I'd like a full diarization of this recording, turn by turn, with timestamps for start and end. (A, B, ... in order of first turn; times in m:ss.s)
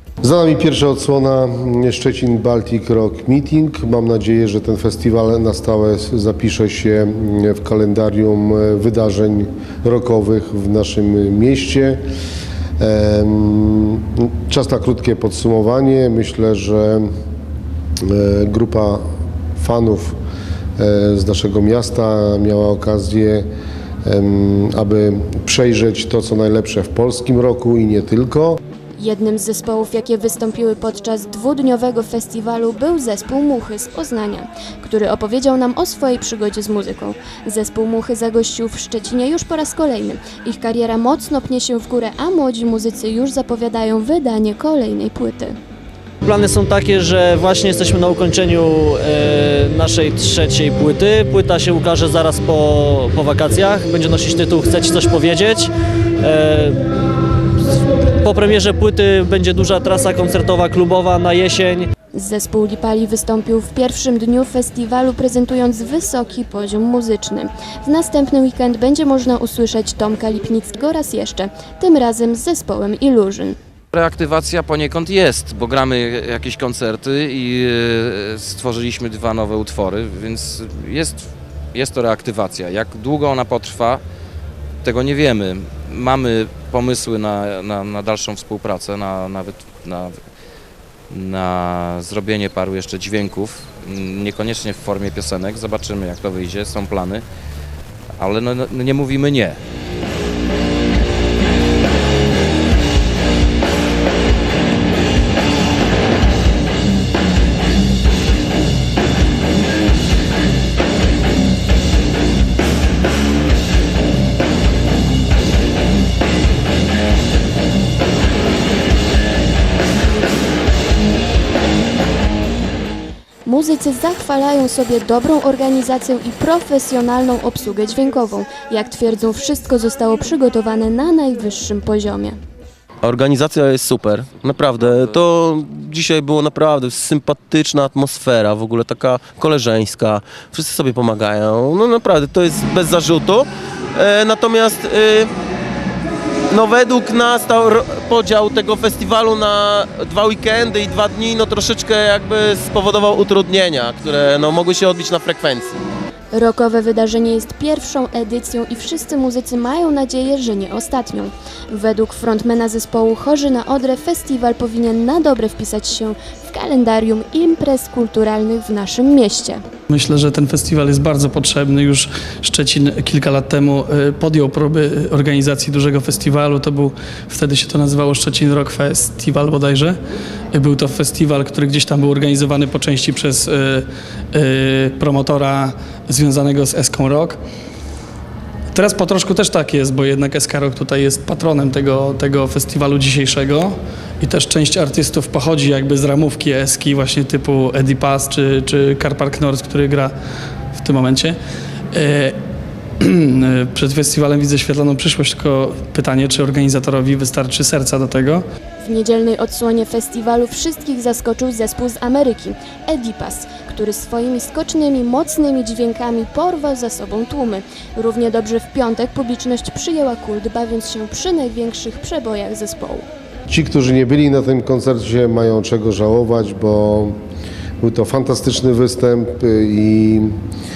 0:00.2-0:12.0 A
0:12.8-0:17.1 A
0:18.0-0:19.0 A
0:19.6-0:20.2 A
0:20.8-0:23.4 A
0:24.1-0:28.6 A
0:29.0-0:45.6 B
0:46.2-0:56.8 C
0:58.0-1:01.9 C
1:02.2-1:13.6 B
1:13.9-1:24.0 D
1:24.8-1:30.2 D
1:31.1-1:37.2 D
1:38.2-1:39.6 D
2:03.4-2:12.4 B
2:13.0-2:25.3 E
2:26.5-2:35.8 E
2:36.3-2:49.6 B
2:49.9-3:00.0 F
3:00.5-3:07.4 F
3:08.7-3:20.1 F
3:20.8-3:21.4 F
3:21.9-3:22.4 F
3:23.0-3:28.4 F
3:28.8-3:43.0 B
3:43.5-3:47.2 A
3:47.8-3:50.3 A